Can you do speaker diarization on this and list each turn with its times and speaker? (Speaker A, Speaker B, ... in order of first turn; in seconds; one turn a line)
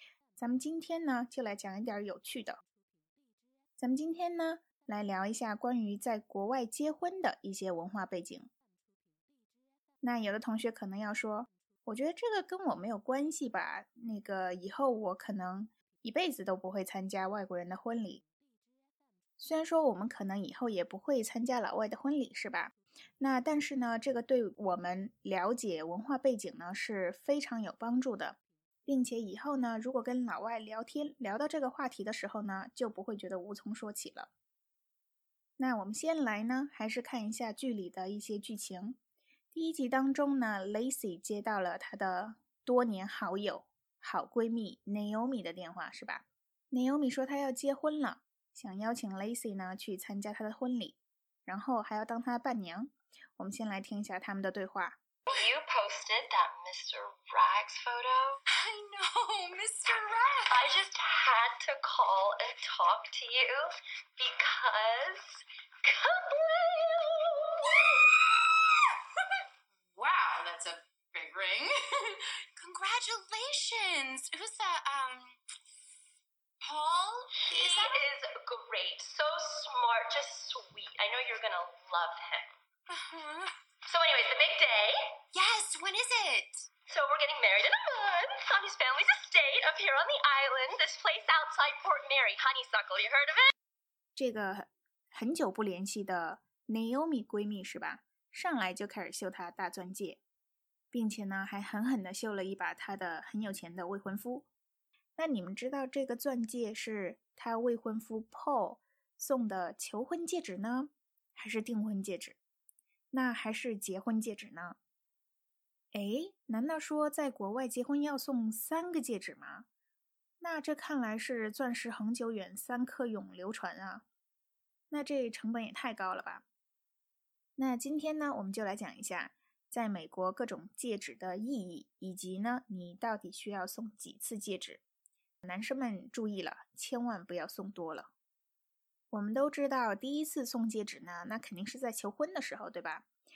Speaker A: 0.4-2.6
Speaker A: 3.8-8.5
Speaker A: 10.0-18.2
Speaker A: 19.4-34.3
Speaker A: 35.6-39.0
Speaker A: 39.5-55.0
Speaker B: 55.3-58.4
Speaker C: 58.5-60.8
Speaker B: 60.5-68.1
Speaker C: 69.9-75.4
Speaker C: 76.6-78.0
Speaker B: 77.5-82.5
Speaker C: 82.9-83.5
Speaker B: 83.9-85.0
Speaker C: 85.3-86.7
Speaker B: 86.9-93.5
Speaker A: 94.2-100.2
Speaker A: 100.9-104.5
Speaker A: 105.2-112.4
Speaker A: 113.1-114.8
Speaker A: 115.9-119.7
Speaker A: 120.4-124.0
Speaker A: 124.9-126.5
Speaker A: 127.6-134.8
Speaker A: 135.4-138.1
Speaker A: 139.1-143.1